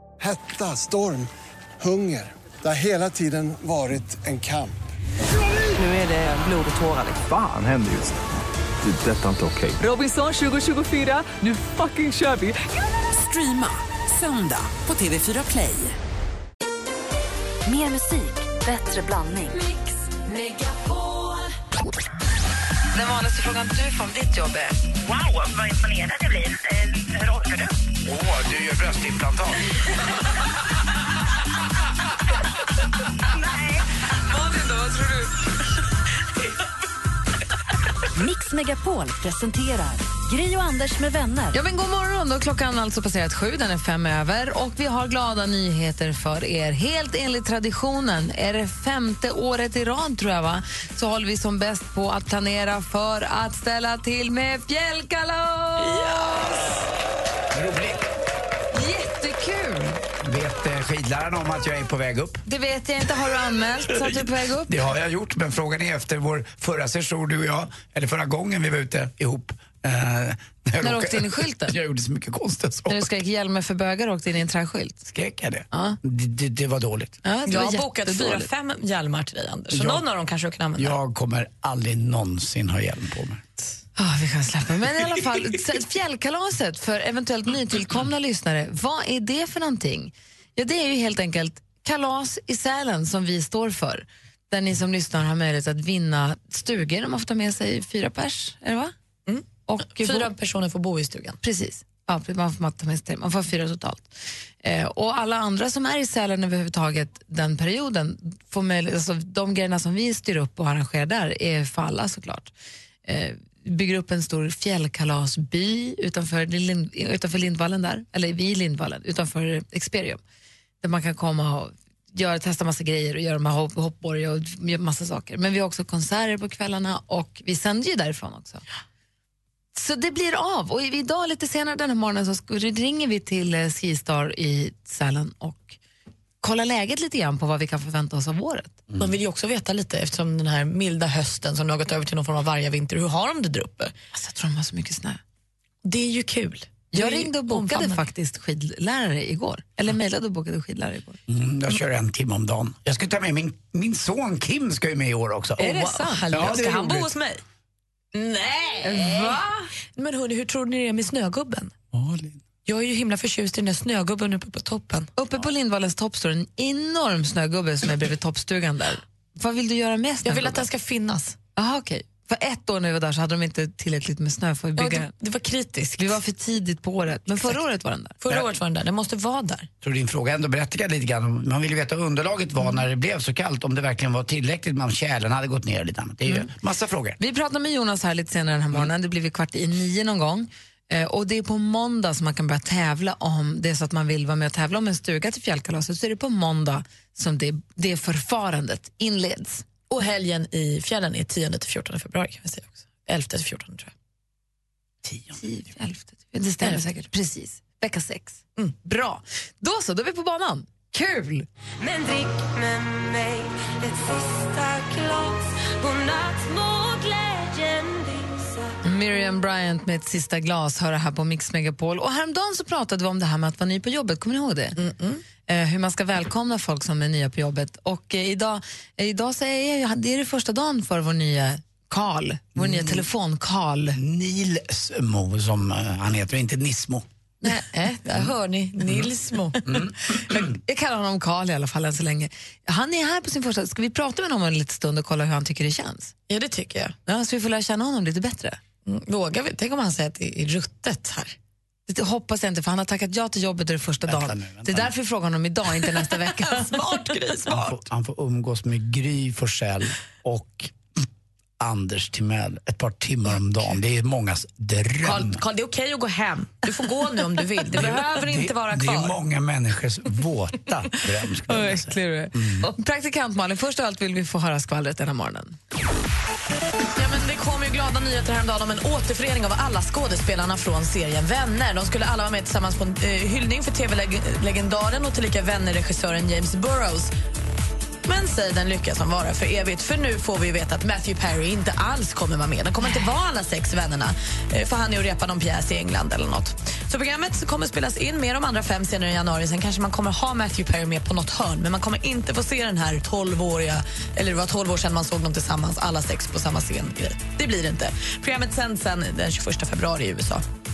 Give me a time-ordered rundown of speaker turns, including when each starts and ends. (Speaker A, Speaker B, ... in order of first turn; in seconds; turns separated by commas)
Speaker A: 0.2-4.8, Speaker B: 5.8-7.2, Speaker C: 7.2-8.2, Speaker C: 8.8-9.8, Speaker B: 9.8-12.6, Speaker B: 13.1-15.9, Speaker D: 17.6-19.6, Speaker E: 19.5-21.6, Speaker F: 22.9-24.8, Speaker G: 25.1-27.7, Speaker H: 28.1-29.7, Speaker F: 34.3-35.3, Speaker D: 38.1-41.6, Speaker F: 41.5-56.8, Speaker H: 57.5-58.1, Speaker F: 58.7-60.0, Speaker H: 60.2-62.4, Speaker F: 62.5-64.8, Speaker H: 64.0-73.1, Speaker F: 70.8-71.8, Speaker F: 72.9-75.0, Speaker H: 75.1-77.2, Speaker F: 75.7-76.0, Speaker F: 77.2-78.5, Speaker I: 77.5-81.0, Speaker H: 79.7-80.0, Speaker H: 80.8-83.4, Speaker F: 84.0-98.9, Speaker I: 99.3-101.4, Speaker F: 99.7-100.3, Speaker F: 101.4-112.5, Speaker F: 113.0-120.2, Speaker F: 120.8-128.6, Speaker F: 129.7-135.8, Speaker F: 136.4-138.8, Speaker H: 138.9-139.2, Speaker I: 139.0-143.9, Speaker F: 144.1-145.2, Speaker I: 145.8-148.0, Speaker F: 146.9-151.2, Speaker H: 151.3-155.6, Speaker I: 155.6-157.4, Speaker F: 155.6-156.6, Speaker H: 156.3-157.1, Speaker I: 158.1-159.4, Speaker F: 158.8-159.7, Speaker I: 159.9-161.7, Speaker H: 161.9-162.4, Speaker I: 162.7-165.1, Speaker F: 165.2-170.7, Speaker I: 170.2-171.4, Speaker F: 171.6-175.1, Speaker I: 174.8-176.2, Speaker F: 176.0-178.2, Speaker I: 178.2-179.7, Speaker H: 179.8-187.2, Speaker F: 187.2-199.7, Speaker I: 199.9-203.9, Speaker F: 205.4-211.5, Speaker I: 206.6-206.9, Speaker E: 211.8-218.7, Speaker F: 218.8-224.8, Speaker I: 224.8-225.2, Speaker F: 225.5-234.0, Speaker H: 232.6-233.0, Speaker H: 234.0-237.1, Speaker I: 237.4-239.8, Speaker H: 239.7-240.4, Speaker F: 240.3-246.1, Speaker I: 246.3-246.9, Speaker F: 247.1-248.6, Speaker I: 248.8-251.4, Speaker F: 251.9-257.1, Speaker H: 254.1-254.9, Speaker I: 256.4-257.8, Speaker H: 257.5-260.8, Speaker H: 261.6-265.4, Speaker I: 265.0-269.1, Speaker H: 267.7-272.7, Speaker F: 271.5-275.6, Speaker I: 276.9-287.1, Speaker I: 288.0-310.4